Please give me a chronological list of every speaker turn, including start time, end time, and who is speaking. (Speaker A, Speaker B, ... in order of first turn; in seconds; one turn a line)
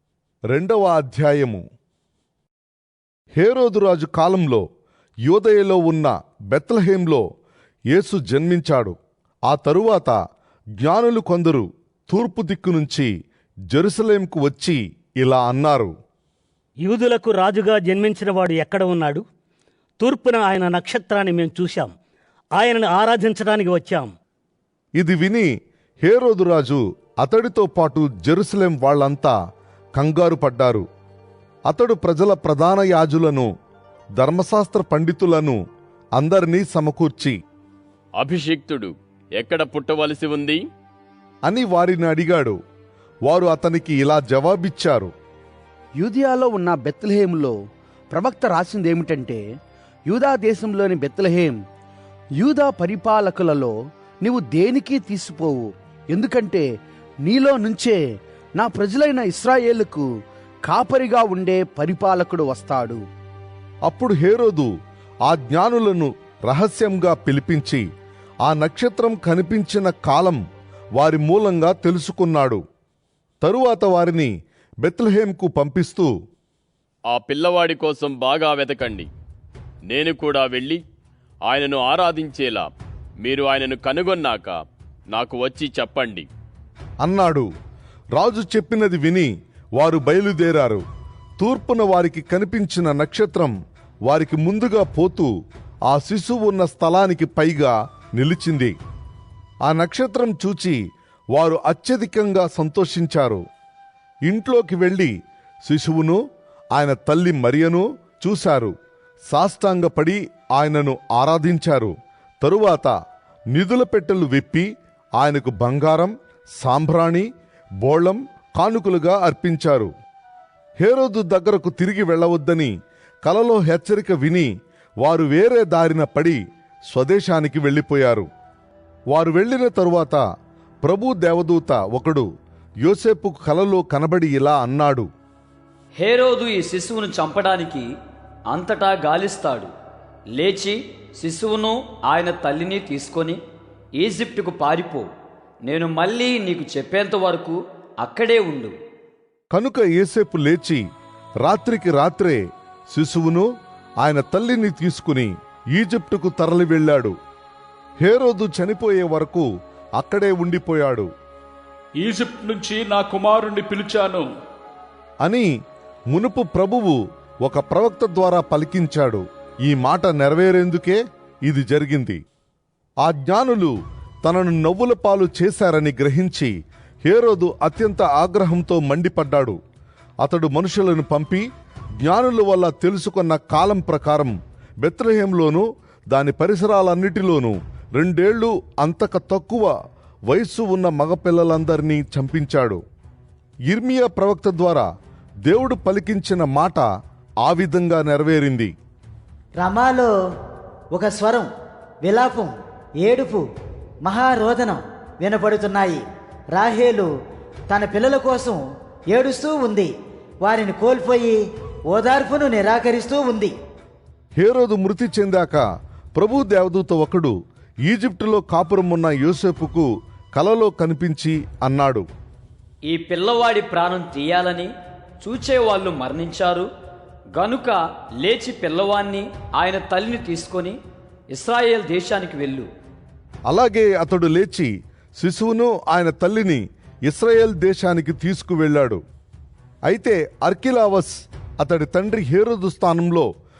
Speaker A: 0.5-1.6
Speaker A: 3.4-4.6
Speaker A: 5.3-7.2
Speaker A: 7.9-8.9
Speaker A: 9.5-10.2
Speaker A: 10.8-13.1
Speaker A: 13.7-15.9
Speaker B: 16.8-19.2
Speaker B: 20.0-21.9
Speaker B: 22.6-24.1
Speaker A: 25.0-25.5
Speaker A: 26.0-29.3
Speaker A: 29.9-30.8
Speaker A: 31.7-33.5
Speaker A: 34.2-35.6
Speaker A: 36.2-37.4
Speaker C: 38.2-40.6
Speaker A: 41.5-42.6
Speaker A: 43.3-45.1
Speaker D: 46.0-47.5
Speaker D: 48.1-49.4
Speaker D: 50.1-51.6
Speaker D: 52.4-56.6
Speaker D: 57.2-58.0
Speaker D: 58.6-60.1
Speaker D: 60.6-63.0
Speaker A: 63.9-64.7
Speaker A: 65.2-67.8
Speaker A: 68.4-70.4
Speaker A: 71.0-72.6
Speaker A: 73.4-74.3
Speaker A: 74.8-76.1
Speaker C: 77.1-79.1
Speaker C: 79.9-80.8
Speaker C: 81.4-82.7
Speaker C: 83.2-86.3
Speaker A: 87.0-87.5
Speaker A: 88.2-90.8
Speaker A: 91.4-93.5
Speaker A: 94.0-95.3
Speaker A: 95.9-98.7
Speaker A: 99.6-100.8
Speaker A: 101.3-103.4
Speaker A: 104.2-105.1
Speaker A: 105.6-106.2
Speaker A: 106.7-108.7
Speaker A: 109.3-112.9
Speaker A: 113.5-114.7
Speaker A: 115.2-117.3
Speaker A: 117.8-119.9
Speaker A: 120.8-122.7
Speaker A: 123.2-124.5
Speaker A: 125.0-126.4
Speaker A: 126.9-128.3
Speaker A: 129.1-130.2
Speaker A: 130.8-132.2
Speaker A: 132.8-135.1
Speaker E: 136.0-137.9
Speaker E: 138.5-139.7
Speaker E: 140.3-143.4
Speaker E: 144.0-145.1
Speaker E: 145.6-148.7
Speaker A: 149.5-150.8
Speaker A: 151.4-153.5
Speaker A: 154.0-157.1
Speaker A: 158.0-159.4
Speaker A: 160.0-161.1
Speaker F: 162.0-164.3
Speaker A: 165.2-165.5
Speaker A: 166.1-172.2
Speaker A: 173.0-173.7
Speaker A: 174.2-176.5
Speaker A: 177.1-179.6
Speaker A: 180.2-181.4
Speaker A: 182.0-189.7
Speaker A: 190.3-192.8
Speaker A: 193.7-194.9
Speaker A: 195.4-196.9
Speaker A: 197.4-198.7
Speaker G: 199.6-200.1
Speaker G: 200.9-201.5
Speaker G: 202.0-203.4
Speaker G: 204.0-207.1
Speaker G: 207.7-208.6
Speaker G: 209.1-209.9
Speaker G: 210.4-211.4
Speaker G: 211.9-213.5
Speaker A: 214.4-215.6
Speaker A: 216.2-222.1
Speaker E: 222.9-224.7
Speaker E: 225.2-226.7
Speaker E: 227.3-230.8
Speaker E: 231.3-232.7
Speaker A: 233.5-239.0
Speaker A: 239.9-243.3